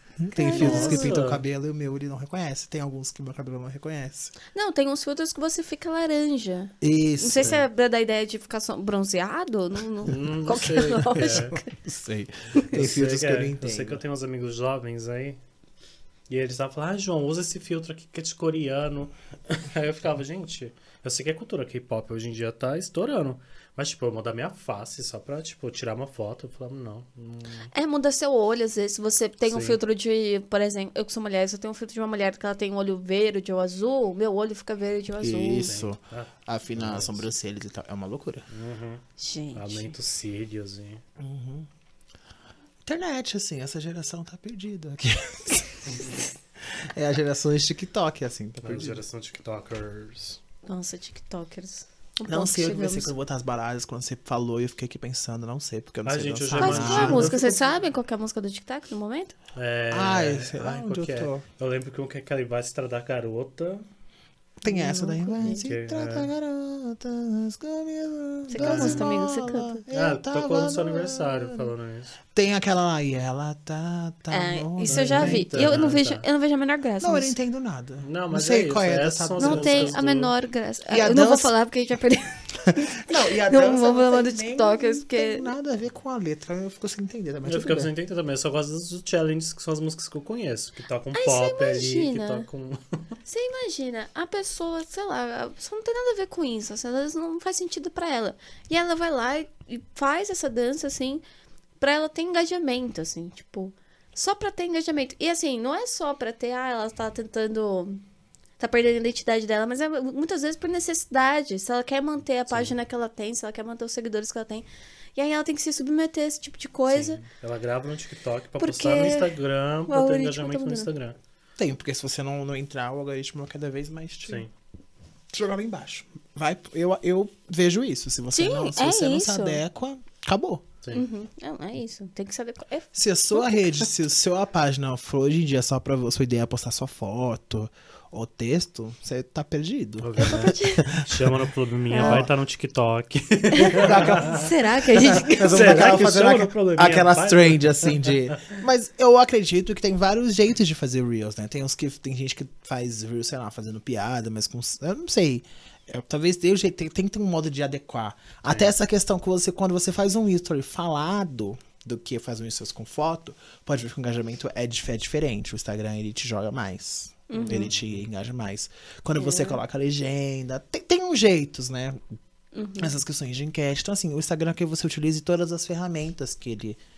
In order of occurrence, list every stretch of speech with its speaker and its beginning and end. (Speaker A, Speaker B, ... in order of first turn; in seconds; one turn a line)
Speaker A: 0.2-4.3
Speaker B: 0.3-1.1
Speaker C: 0.5-1.4
Speaker B: 4.5-11.7
Speaker A: 6.8-7.6
Speaker C: 10.0-11.6
Speaker A: 10.6-14.0
Speaker C: 12.6-15.4
Speaker C: 16.3-27.7
Speaker B: 27.7-35.8
Speaker C: 29.5-29.8
Speaker A: 35.2-38.5
Speaker C: 35.6-37.3
Speaker C: 38.5-41.0
Speaker B: 39.2-39.9
Speaker A: 41.2-41.7
Speaker A: 42.8-49.0
Speaker C: 48.6-50.4
Speaker B: 50.6-53.1
Speaker A: 52.3-57.4
Speaker C: 56.0-57.6
Speaker B: 56.6-59.3
Speaker C: 59.5-63.8
Speaker A: 59.9-61.4
Speaker A: 64.6-71.7
Speaker B: 64.7-65.7
Speaker C: 65.5-66.3
Speaker B: 68.5-69.8
Speaker C: 68.6-69.1
Speaker C: 69.9-72.2
Speaker A: 72.3-76.0
Speaker B: 74.3-77.3
Speaker C: 74.8-76.2
Speaker A: 77.0-80.0
Speaker C: 78.0-80.3
Speaker B: 79.4-85.5
Speaker A: 80.9-81.5
Speaker A: 82.8-87.9
Speaker C: 87.4-93.0
Speaker B: 91.1-92.5
Speaker B: 93.2-101.2
Speaker B: 101.8-108.0
Speaker B: 108.6-117.2
Speaker C: 112.5-112.7
Speaker C: 116.9-121.2
Speaker B: 118.6-119.3
Speaker B: 119.9-120.9
Speaker A: 121.6-124.4
Speaker A: 125.3-130.7
Speaker B: 128.3-129.6
Speaker B: 130.9-133.8
Speaker A: 132.9-142.3
Speaker C: 140.0-148.5
Speaker B: 140.2-140.9
Speaker B: 141.9-142.3
Speaker B: 143.5-145.9
Speaker A: 143.6-172.1
Speaker B: 167.3-167.7
Speaker C: 167.4-168.0
Speaker B: 169.2-169.6
Speaker B: 172.5-172.9
Speaker A: 172.8-176.8